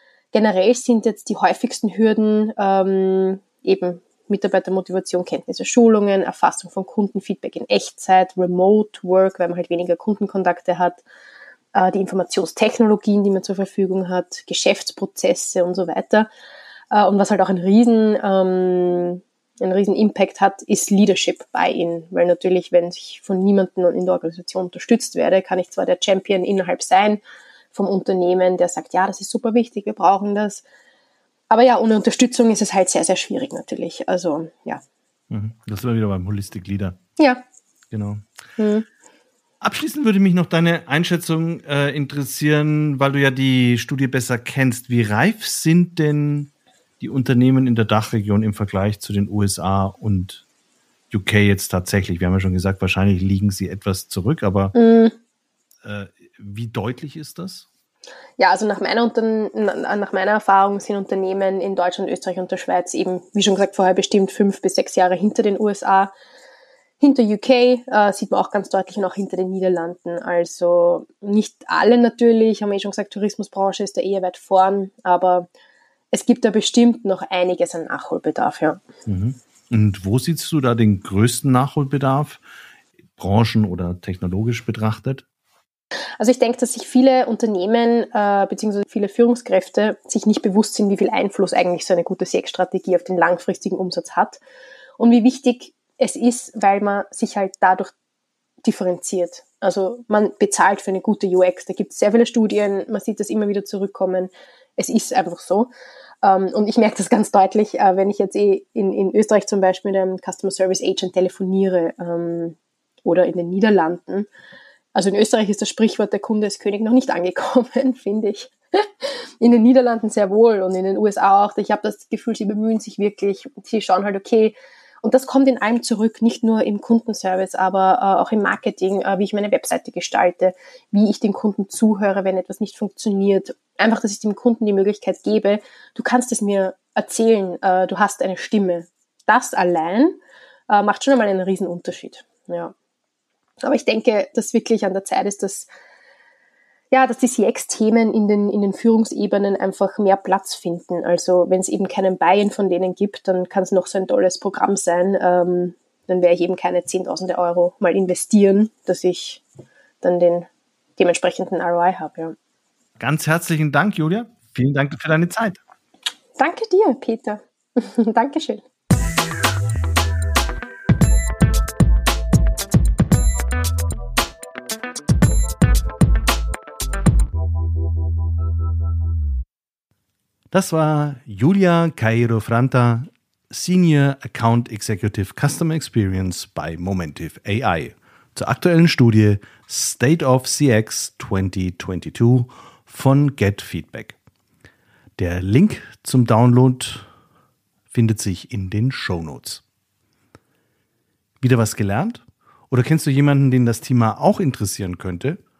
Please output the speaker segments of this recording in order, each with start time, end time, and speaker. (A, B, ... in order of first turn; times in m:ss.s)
0:00.3-0:11.0 A
0:11.7-0:16.3 A
0:16.9-0:27.2 A
0:27.7-0:30.6 A
0:31.5-0:34.8 A
0:35.3-0:37.0 B
0:37.2-0:37.4 A
0:37.9-0:38.2 B
0:38.6-0:38.8 A
0:39.6-0:50.4 B
0:51.1-0:54.7 B
0:54.7-0:55.1 A
0:55.8-0:57.7 B
0:58.4-1:06.1 A
1:07.0-1:15.5 A
1:16.1-1:18.8 A
1:19.0-1:22.4 B
1:23.2-1:25.2 B
1:26.2-1:34.4 A
1:35.0-1:37.9 A
1:38.6-1:45.7 A
1:46.2-1:54.3 A
1:54.9-2:22.7 A
2:23.6-2:25.7 A
2:26.9-2:39.4 A
2:40.0-2:42.3 A
2:43.0-2:45.6 B
2:46.4-2:48.6 A
3:00.5-3:14.2 B
3:15.2-3:17.1 B
3:17.9-3:19.6 B
3:21.4-3:25.4 B